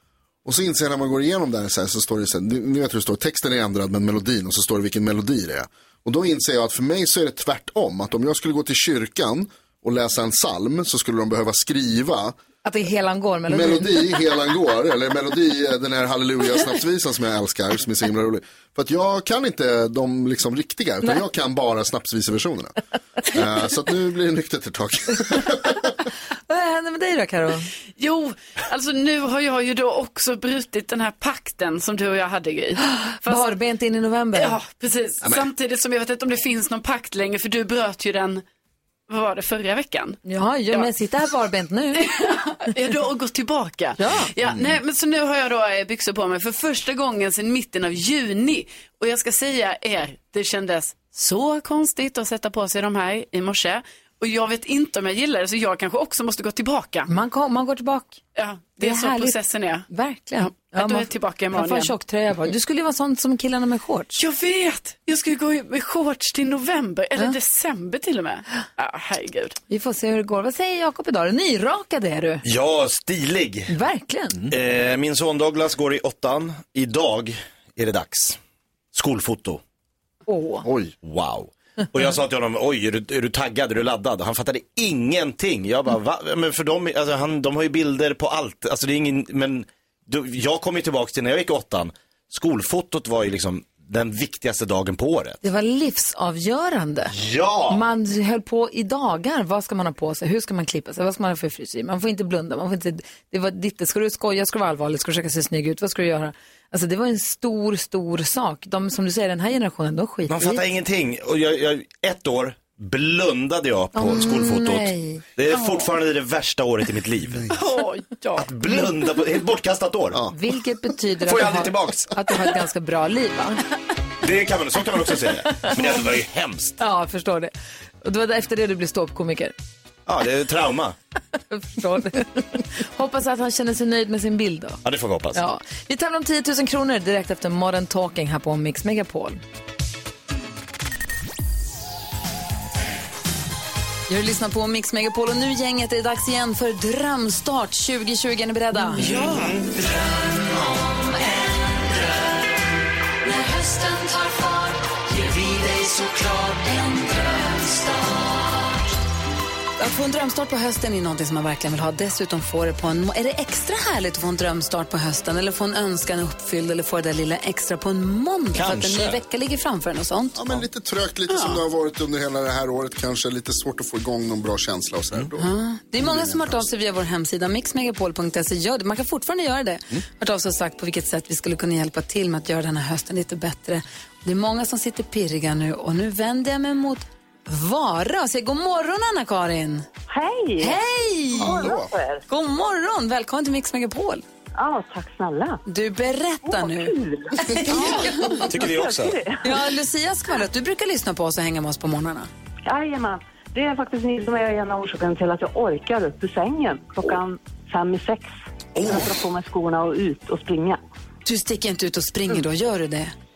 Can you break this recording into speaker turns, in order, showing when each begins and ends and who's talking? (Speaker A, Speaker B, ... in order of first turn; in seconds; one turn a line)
Speaker A: 0.4-12.4
Speaker B: 12.6-14.0
Speaker A: 13.5-22.8
Speaker A: 23.3-25.9
Speaker B: 26.5-27.7
Speaker C: 28.0-33.5
Speaker B: 33.2-34.5
Speaker C: 34.3-38.4
Speaker C: 39.1-40.2
Speaker B: 40.2-42.1
Speaker C: 42.0-57.1
Speaker B: 44.0-44.3
Speaker B: 57.1-58.2
Speaker C: 58.4-59.9
Speaker B: 58.8-59.4
Speaker B: 59.9-64.2
Speaker C: 60.4-61.9
Speaker C: 64.1-69.5
Speaker B: 69.7-72.4
Speaker D: 72.4-73.7
Speaker B: 73.7-74.4
Speaker D: 74.4-78.4
Speaker D: 78.9-79.6
Speaker B: 80.3-80.6
Speaker A: 80.6-80.9
Speaker D: 81.0-95.4
Speaker B: 95.4-97.1
Speaker D: 97.1-97.8
Speaker B: 97.7-110.6
Speaker D: 110.3-117.5
Speaker B: 113.9-115.2
Speaker C: 115.6-115.9
Speaker C: 117.5-118.5
Speaker D: 118.4-120.3
Speaker B: 120.3-123.6
Speaker D: 121.2-122.1
Speaker D: 124.2-126.8
Speaker B: 126.8-129.5
Speaker D: 130.1-130.9
Speaker B: 131.5-134.8
Speaker D: 134.8-135.4
Speaker B: 135.3-139.4
Speaker B: 144.1-149.1
Speaker D: 148.9-149.9
Speaker B: 159.8-170.6
Speaker D: 168.5-169.2
Speaker A: 170.3-176.7
Speaker C: 171.3-171.6
Speaker B: 175.4-189.8
Speaker E: 190.1-190.8
Speaker B: 190.6-191.7
Speaker A: 191.4-191.9
Speaker E: 191.4-192.2
Speaker B: 192.3-194.2
Speaker E: 194.5-195.6
Speaker B: 195.7-198.5
Speaker E: 196.4-199.6
Speaker D: 198.5-199.2
Speaker B: 199.4-202.3
Speaker E: 202.7-208.3
Speaker D: 208.8-209.2
Speaker E: 208.8-210.8
Speaker B: 211.2-213.1